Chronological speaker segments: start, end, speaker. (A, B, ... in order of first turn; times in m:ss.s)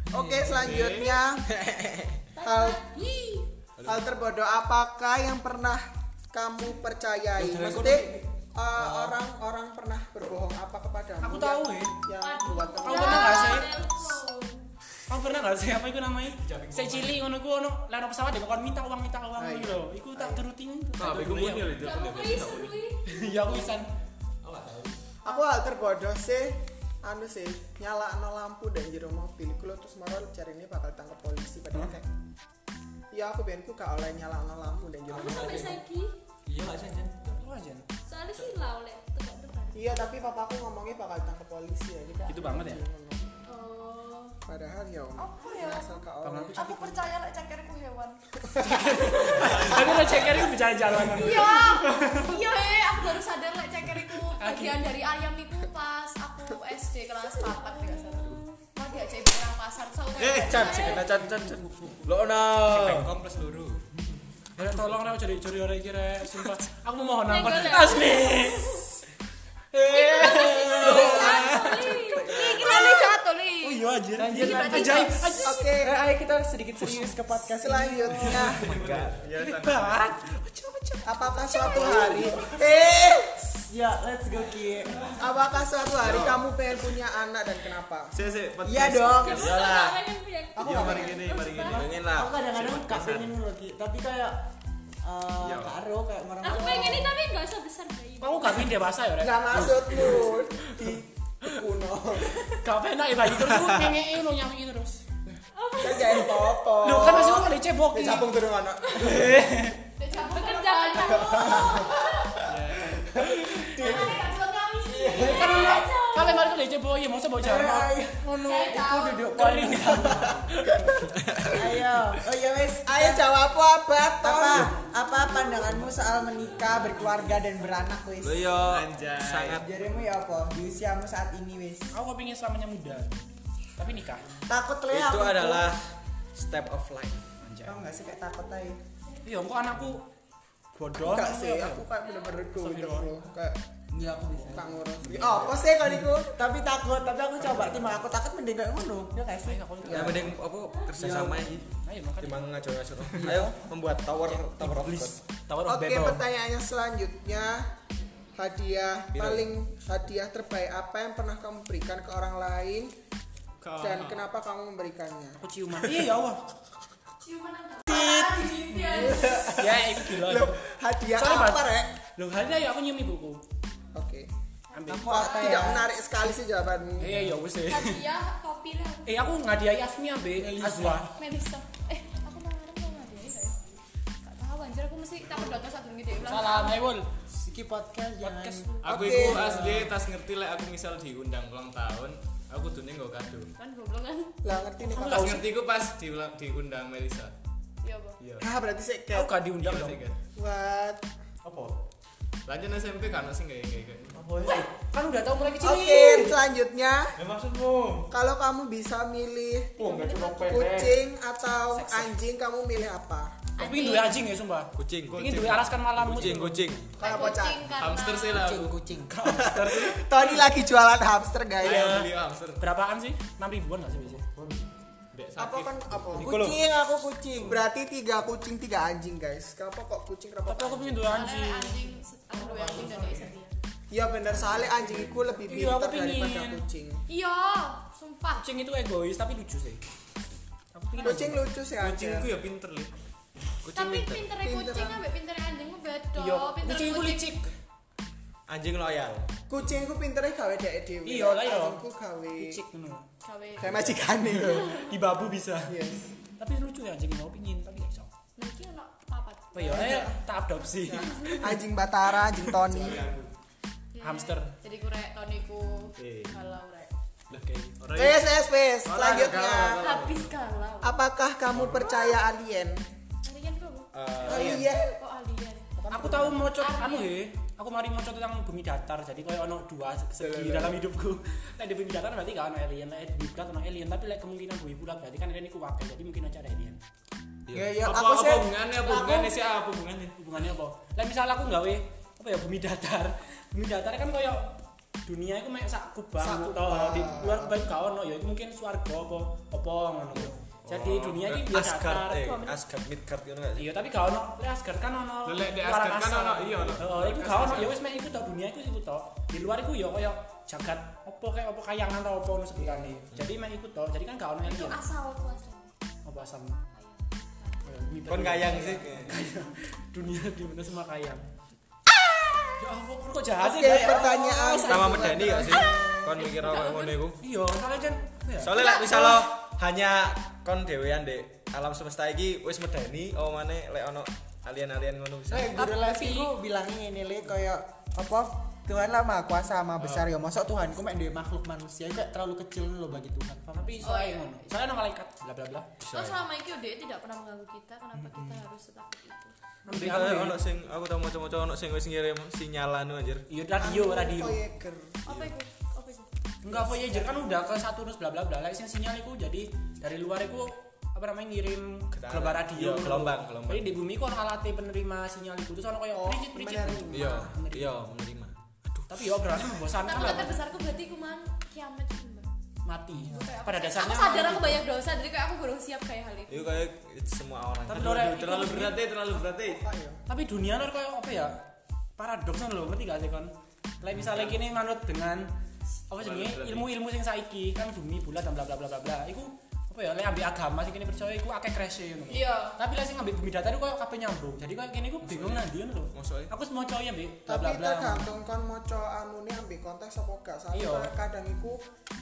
0:00.1-0:01.4 A
0:00.4-0:01.2 B
0:01.5-0:02.3 C
0:02.4-0:03.5 D
0:02.4-0:02.8 A
0:03.8-0:04.0 C
0:03.8-0:13.7 A
0:07.4-0:08.0 B
0:07.5-0:08.1 C
0:08.8-0:09.2 E
0:11.2-0:12.0 F
0:12.2-0:14.7 G
0:12.8-0:13.7 F
0:12.9-0:13.5 D
0:15.1-0:21.9 F
0:16.3-0:17.2 B
0:19.4-0:20.4 A
0:21.0-0:22.8 B
0:21.8-0:23.7 G
0:23.1-0:23.9 F
0:24.4-0:25.2 B
0:25.2-0:32.1 A
0:33.1-0:35.8 A
0:35.1-0:35.8 B
0:35.1-0:36.2 G
0:36.5-0:37.5 B
0:37.4-0:37.9 F
0:38.1-0:40.1 G
0:39.8-0:43.3 A
0:42.3-0:42.8 F
0:43.5-0:44.4 G
0:44.5-0:46.8 A
0:45.2-0:48.2 D
0:46.2-0:47.0 F
0:48.5-0:49.5 A
0:48.6-0:52.4 F
0:49.4-0:50.4 B
0:51.1-1:01.2 D
0:54.4-0:54.9 F
0:57.3-0:58.6 G
1:00.2-1:00.6 B
1:00.3-1:03.1 C
1:01.4-1:02.0 F
1:02.6-1:03.9 B
1:04.6-1:08.9 F
1:07.3-1:08.8 G
1:09.7-1:13.1 F
1:09.9-1:12.3 G
1:10.8-1:12.2 C
1:10.9-1:11.6 D
1:12.2-1:15.5 D
1:13.6-1:15.7 F
1:14.2-1:15.1 E
1:15.4-1:16.0 A
1:15.8-1:18.5 E
1:16.8-1:17.2 F
1:17.6-1:18.7 A
1:18.4-1:20.1 C
1:18.7-1:19.8 B
1:19.4-1:22.4 F
1:21.1-1:23.4 A
1:21.6-1:22.4 E
1:23.4-1:25.2 E
1:25.2-1:28.2 A
1:26.0-1:26.5 C
1:28.2-1:29.9 B
1:28.6-1:29.6 E
1:29.2-1:29.9 C
1:29.2-1:31.8 G
1:30.6-1:31.9 B
1:30.6-1:31.1 A
1:30.6-1:34.5 E
1:31.7-1:32.4 C
1:32.4-1:33.4 B
1:35.0-1:37.1 E
1:35.4-1:35.8 B
1:36.4-1:38.8 G
1:36.6-1:36.9 A
1:38.2-1:40.3 F
1:39.2-1:42.5 A
1:42.6-1:45.0 F
1:43.5-1:43.9 C
1:45.6-1:46.6 G
1:45.8-1:49.5 A
1:46.8-1:48.3 F
1:49.0-1:49.8 F
1:50.0-1:52.3 D
1:50.2-1:51.9 G
1:51.8-1:52.2 A
1:52.4-1:53.0 B
1:53.8-1:54.3 A
1:53.8-1:55.9 D
1:55.1-1:56.6 G
1:55.1-2:01.0 F
1:57.4-2:00.4 E
1:58.4-1:59.3 D
2:01.2-2:01.7 C
2:01.5-2:03.3 E
2:02.9-2:04.8 A
2:04.2-2:08.6 E
2:08.2-2:09.7 C
2:08.6-2:09.6 B
2:09.5-2:11.9 E
2:11.9-2:13.2 F
2:13.8-2:14.3 F
2:14.5-2:15.8 E
2:14.9-2:17.3 C
2:17.4-2:17.9 F
2:17.6-2:18.8 E
2:19.2-2:20.1 F
2:20.7-2:21.9 F
2:20.9-2:23.6 A
2:22.5-2:23.2 F
2:23.9-2:30.1 E
2:24.5-2:26.4 A
2:29.4-2:30.4 F
2:29.9-2:30.2 A
2:29.9-2:31.7 C
2:31.0-2:32.5 F
2:32.2-2:35.2 C
2:33.0-2:33.7 F
2:34.4-2:36.2 F
2:35.7-2:37.7 A
2:38.4-2:42.9 A
2:39.1-2:39.5 C
2:43.6-2:44.3 B
2:43.8-2:45.4 A
2:45.4-2:46.6 F
2:47.2-2:49.6 D
2:47.9-2:48.2 F
2:48.7-2:50.6 F
2:49.0-2:51.9 A
2:51.1-2:53.4 F
2:53.9-2:54.3 A
2:54.7-2:55.3 F
2:54.9-2:55.9 E
2:55.0-2:57.2 A
2:55.1-2:55.6 D
2:57.0-2:58.0 F
2:57.6-2:59.5 D
2:59.1-3:01.1 F
3:00.3-3:01.2 E
3:01.2-3:03.6 D
3:04.2-3:06.9 D
3:06.2-3:07.1 F
3:07.3-3:09.9 E
3:08.2-3:09.0 F
3:08.8-3:13.5 B
3:08.9-3:09.5 A
3:13.6-3:14.4 D
3:14.4-3:15.5 A
3:14.8-3:15.5 F
3:15.0-3:17.3 B
3:17.8-3:18.2 D
3:18.2-3:18.5 B
3:18.4-3:19.3 A
3:19.1-3:20.0 F
3:19.6-3:20.2 B
3:20.4-3:21.1 A
3:21.4-3:21.8 B
3:22.5-3:24.7 B
3:24.8-3:26.4 F
3:25.6-3:27.2 A
3:27.2-3:28.1 B
3:28.1-3:29.8 A
3:29.8-3:31.1 B
3:29.8-3:30.6 D
3:30.5-3:33.4 A
3:31.7-3:32.2 F
3:33.6-3:34.2 D
3:33.6-3:36.7 F
3:34.8-3:35.4 C
3:35.1-3:35.8 B
3:36.0-3:37.0 C
3:37.0-3:38.5 D
3:37.0-3:37.7 A
3:37.7-3:38.8 B
3:38.3-3:39.5 E
3:39.1-3:40.5 F
3:39.4-3:42.0 A
3:41.6-3:42.6 B
3:41.6-3:44.2 F
3:44.2-3:46.3 B
3:45.4-3:46.3 A
3:46.2-3:47.7 E
3:46.2-3:46.6 C
3:47.4-3:51.3 A
3:50.5-3:51.8 F
3:51.1-3:53.6 D
3:52.3-3:53.3 B
3:53.9-3:57.0 A
3:54.5-3:56.6 F
3:57.1-3:58.4 D
3:58.4-3:59.8 F
4:00.7-4:01.5 F
4:01.0-4:02.4 A
4:01.8-4:02.9 B
4:03.6-4:04.3 C
4:03.7-4:07.5 D
4:04.4-4:05.0 A
4:06.2-4:07.5 F
4:08.5-4:09.3 C
4:09.5-4:12.6 A
4:11.0-4:11.8 F
4:12.4-4:13.1 F
4:13.2-4:13.9 D
4:13.6-4:14.9 A
4:14.2-4:15.8 F
4:15.7-4:16.1 A
4:16.4-4:18.1 F
4:18.4-4:19.8 D
4:19.5-4:21.6 F
4:19.6-4:20.2 A
4:20.8-4:23.1 A
4:22.6-4:23.3 B
4:23.9-4:26.9 D
4:24.0-4:24.6 F
4:26.0-4:26.4 B
4:27.3-4:30.4 B
4:28.0-4:29.9 A
4:29.8-4:31.0 D
4:30.8-4:32.8 A
4:31.8-4:32.2 D
4:33.2-4:35.7 D
4:33.9-4:34.6 C
4:34.2-4:35.0 A
4:34.3-4:34.6 F
4:35.8-4:36.5 A
4:35.9-4:46.8 F
4:36.6-4:37.2 D
4:40.3-4:40.7 A
4:47.5-4:50.2 B
4:47.6-4:48.4 E
4:48.8-4:49.2 F
4:50.2-5:02.6 F
4:56.2-4:57.6 A
5:00.7-5:03.7 C
5:03.6-5:14.8 F
5:05.2-5:07.8 B
5:12.6-5:13.0 A
5:14.4-5:15.7 D
5:16.0-5:16.6 F
5:16.7-5:17.7 D
5:17.6-5:21.3 F
5:18.1-5:19.2 C
5:22.0-5:22.4 A
5:22.6-5:25.7 F
5:23.4-5:25.8 A
5:24.6-5:27.2 C
5:25.4-5:27.1 D
5:27.2-5:28.6 F
5:28.4-5:35.7 C
5:28.5-5:29.2 D
5:35.3-5:43.9 E
5:35.6-5:36.3 D
5:43.5-5:45.7 F
5:43.8-5:44.6 D
5:45.8-5:46.2 C
5:45.9-5:49.3 D
5:47.9-5:48.4 E
5:49.7-5:50.4 F
5:49.7-5:53.3 C
5:53.3-5:54.4 F
5:53.6-5:55.0 A
5:55.0-5:56.1 D
5:56.4-6:07.6 F
5:56.5-5:57.4 A
6:01.9-6:03.7 C
6:05.9-6:07.4 A
6:06.9-6:09.7 C
6:08.9-6:10.4 F
6:09.8-6:12.3 D
6:12.7-6:14.6 F
6:13.0-6:16.6 D
6:16.3-6:18.1 C
6:17.7-6:18.8 F
6:17.7-6:19.6 B
6:19.4-6:20.0 A
6:20.1-6:21.5 F
6:22.0-6:25.3 F
6:24.1-6:24.4 B
6:25.9-6:38.1 F
6:26.0-6:26.7 B
6:32.1-6:32.6 D
6:35.0-6:36.3 C
6:37.3-6:41.6 A
6:40.5-6:40.9 F